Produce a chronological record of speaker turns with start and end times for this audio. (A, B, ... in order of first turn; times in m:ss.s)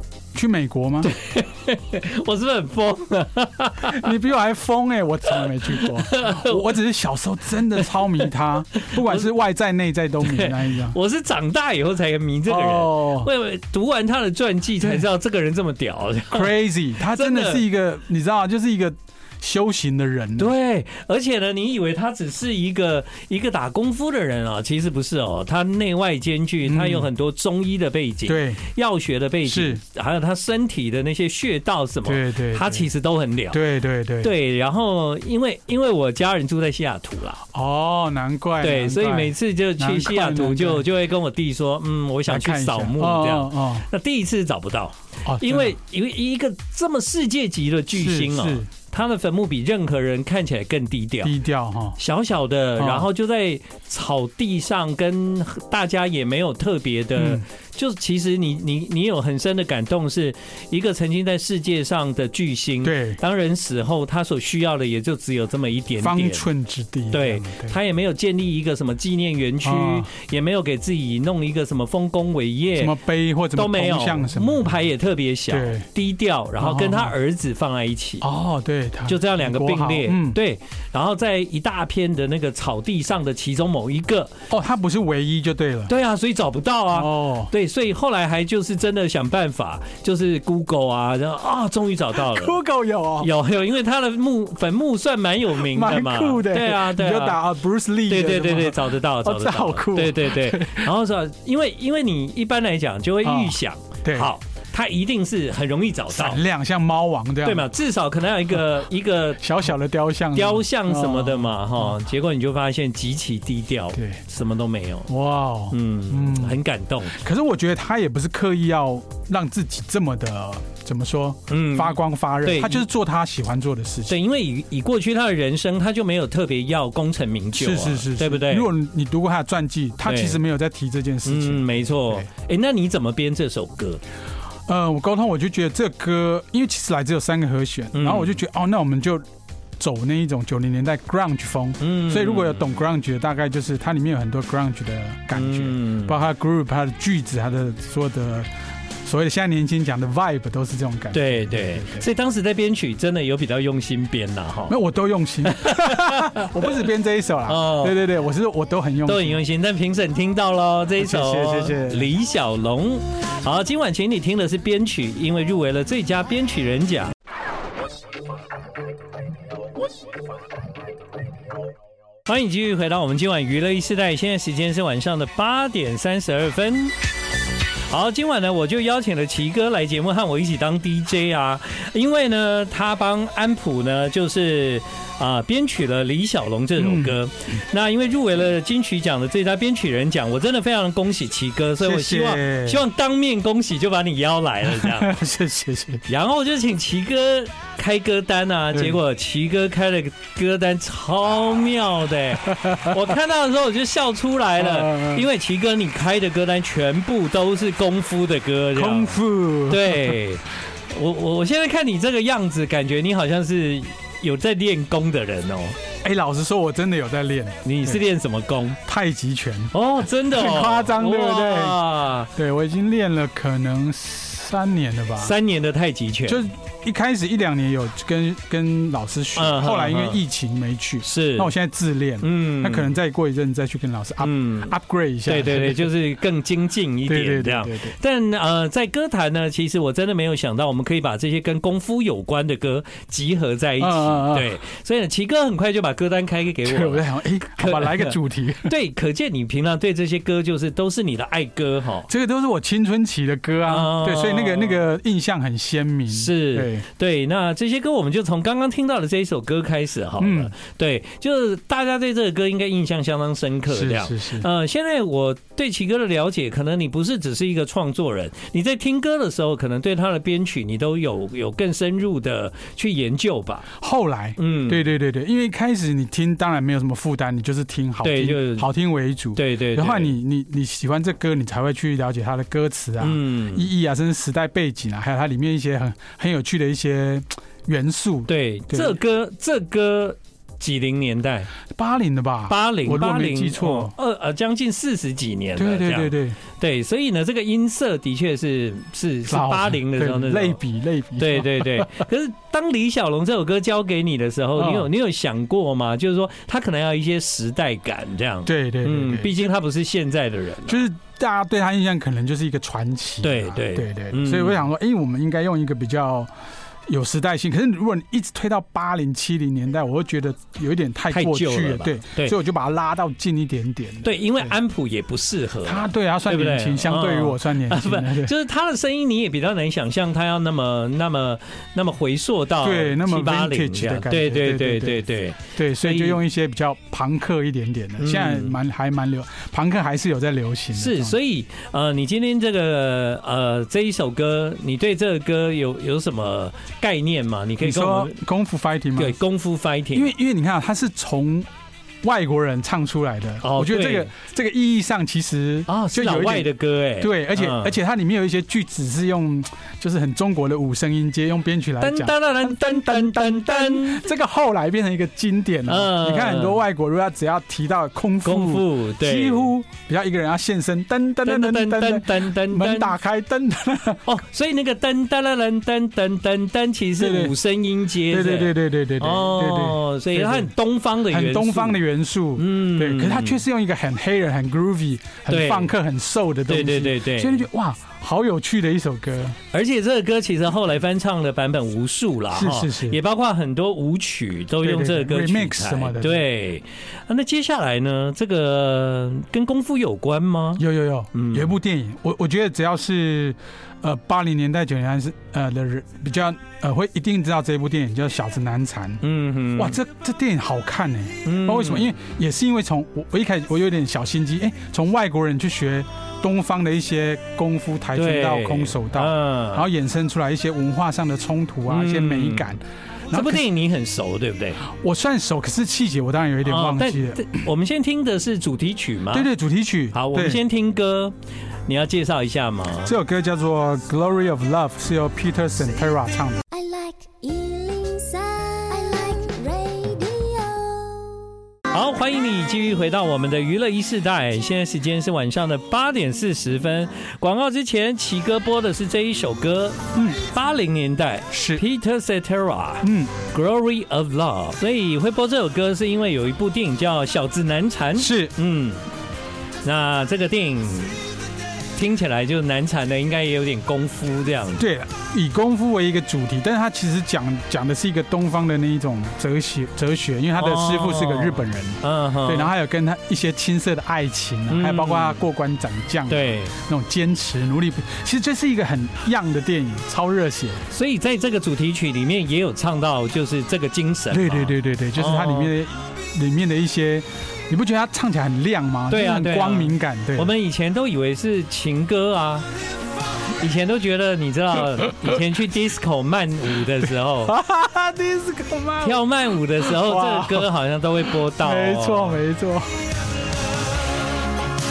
0:00.3-0:01.1 A
0:01.0-0:04.1 B
0:03.9-0:11.0 A
0:05.3-0:06.6 B
0:07.7-0:09.3 B
0:10.2-0:17.6 B
0:12.5-0:13.3 A
0:14.8-0:15.1 A
0:16.3-0:20.5 A
0:20.4-0:33.6 B
0:26.6-0:27.1 A
0:28.3-0:28.6 A
0:29.4-0:29.8 A
0:32.1-0:32.9 A
0:33.5-0:34.3 A
0:34.2-0:37.4 B
0:37.5-0:40.9 A
0:38.6-0:51.3 B
0:42.3-0:43.9 A
0:45.2-0:45.8 A
0:47.9-0:48.7 A
0:51.2-0:52.0 A
0:52.0-1:06.5 B
0:52.8-0:53.1 A
0:57.2-0:57.4 A
1:02.8-1:03.2 A
1:06.0-1:07.8 A
1:07.1-1:12.9 B
1:09.6-1:10.1 A
1:12.8-1:14.7 A
1:13.6-1:18.2 B
1:15.5-1:15.9 A
1:16.6-1:17.1 A
1:18.2-1:20.4 A
1:19.1-1:24.3 B
1:24.5-1:25.9 A
1:25.9-1:32.6 B
1:26.9-1:27.5 A
1:32.2-1:33.3 A
1:33.2-1:37.4 B
1:35.5-1:40.9 A
1:38.1-1:46.4 B
1:43.2-1:44.3 A
1:46.1-1:47.7 A
1:47.4-1:49.5 B
1:49.4-1:52.0 A
1:50.3-1:55.1 B
1:53.9-1:54.2 A
1:55.1-1:56.6 A
1:55.7-1:57.2 B
1:57.1-2:04.2 A
2:01.5-2:02.8 B
2:04.1-2:08.7 B
2:07.6-2:12.3 A
2:10.0-2:10.4 B
2:11.2-2:14.0 B
2:14.7-2:19.2 A
2:17.9-2:18.4 B
2:19.8-2:28.5 A
2:21.8-2:22.7 B
2:25.3-2:26.2 B
2:29.0-2:32.1 A
2:31.1-2:34.8 B
2:34.7-2:39.4 A
2:35.5-2:36.6 B
2:37.5-2:38.0 B
2:39.1-2:47.1 B
2:41.0-2:42.1 A
2:52.3-2:57.0 B
2:57.9-3:15.2 B
3:06.8-3:07.2 A
3:11.8-3:12.8 A
3:14.6-3:16.0 A
3:16.1-3:35.8 B
3:18.7-3:19.0 A
3:22.5-3:23.1 A
3:24.6-3:25.3 A
3:28.7-3:30.2 A
3:36.0-3:38.0 A
3:37.6-3:38.8 B
3:38.8-3:45.3 A
3:39.7-3:42.3 B
3:45.2-3:46.5 B
3:46.3-3:55.9 A
3:49.4-3:50.2 B
3:51.0-3:51.5 B
3:52.2-3:53.0 B
3:54.2-3:54.7 B
3:55.3-4:12.1 B
3:57.1-3:57.9 A
4:03.8-4:04.5 A
4:06.6-4:08.7 A
4:12.1-4:16.8 A
4:13.7-4:14.8 B
4:16.1-4:33.7 B
4:20.2-4:20.5 A
4:23.7-4:24.5 A
4:33.8-4:49.0 A
4:34.4-4:34.8 B
4:38.0-4:38.7 B
4:39.3-4:40.1 B
4:43.0-4:43.7 B
4:48.3-4:51.5 B
4:51.7-4:53.9 A
4:52.5-5:00.6 B
4:55.6-4:56.4 A
4:59.3-5:02.0 A
5:01.2-5:10.8 B
5:04.6-5:04.9 A
5:08.4-5:09.5 A
5:10.7-5:16.3 A
5:13.2-5:14.6 B
5:16.9-5:24.5 A
5:21.1-5:22.4 B
5:24.0-5:36.2 B
5:25.6-5:28.3 A
5:32.6-5:41.2 A
5:38.0-5:38.6 B
5:40.7-5:48.2 B
5:47.6-5:49.2 A
5:49.0-5:50.1 B
5:49.9-5:51.5 A
5:52.0-6:14.1 A
5:53.4-5:54.1 B
5:55.7-5:57.7 B
6:01.8-6:04.0 B
6:05.7-6:06.6 B
6:08.2-6:09.5 B
6:11.2-6:12.9 B
6:14.1-6:21.8 B
6:17.0-6:17.3 A
6:18.1-6:20.5 A
6:21.1-6:29.4 A
6:22.4-6:23.4 B
6:25.3-6:25.7 B
6:26.5-6:27.4 B
6:29.5-6:40.6 B
6:32.3-6:33.0 A
6:34.6-6:36.2 A
6:40.6-6:49.0 A
6:41.1-6:41.5 B
6:49.0-6:49.8 B
6:49.6-7:03.4 A
6:51.2-6:51.9 B
6:57.9-6:59.7 B
7:01.7-7:02.5 B
7:03.1-7:04.6 B
7:04.6-7:07.4 A
7:06.4-7:09.3 B
7:09.1-7:10.4 A
7:09.9-7:11.1 B
7:11.7-7:12.9 B
7:12.8-7:16.4 A
7:16.5-7:21.2 C
7:21.7-7:38.8 B
7:31.3-7:31.6 A
7:32.8-7:33.1 A
7:38.0-7:38.3 A
7:39.6-7:41.0 B
7:41.7-7:44.6 B
7:44.6-8:00.7 A
7:50.4-7:52.5 B
7:54.5-7:55.2 B
7:56.1-7:56.5 B
8:00.7-8:05.5 B
8:04.1-8:10.3 A
8:08.9-8:12.5 B
8:13.4-8:17.4 B
8:14.8-8:15.2 A
8:17.2-8:19.0 A
8:18.8-8:22.2 B
8:19.6-8:20.5 A
8:21.2-8:22.8 A